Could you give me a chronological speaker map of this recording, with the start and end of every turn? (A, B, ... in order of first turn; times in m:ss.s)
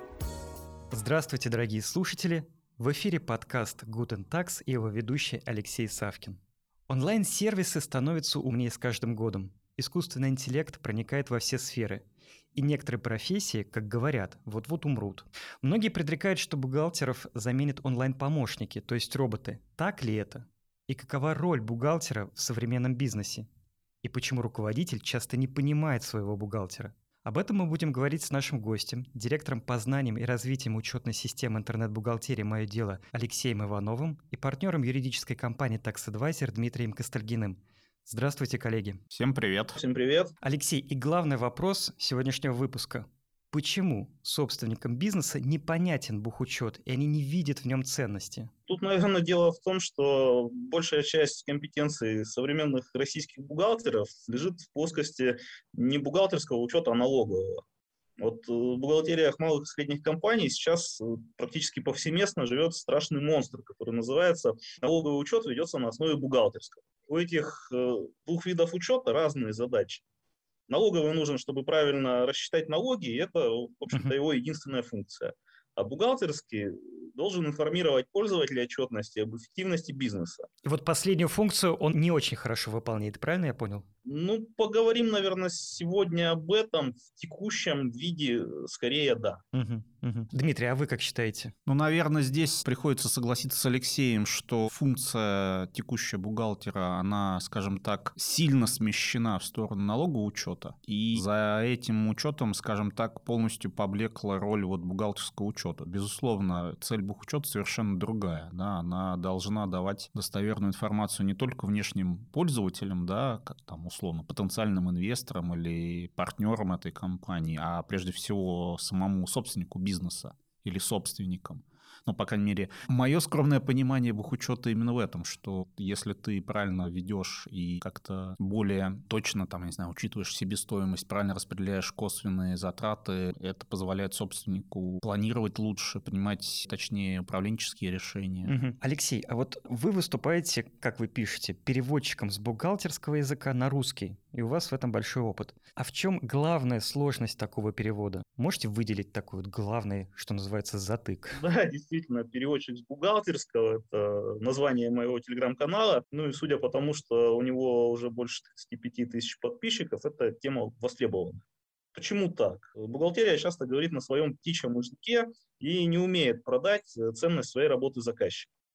0:00.9-0:12.0 A
0:12.6-0:23.5 A
0:24.0-0:39.0 A
0:39.1-0:39.8 B
0:39.8-0:40.3 C
0:40.4-0:48.5 A
0:48.7-0:57.6 C
0:58.2-1:10.0 C
1:10.7-1:20.5 C
1:20.6-1:23.9 A
1:24.1-1:29.4 C
1:29.5-1:31.6 A
1:31.7-2:18.5 B
2:18.4-2:31.4 A
2:31.4-2:41.4 C
2:42.0-2:48.5 C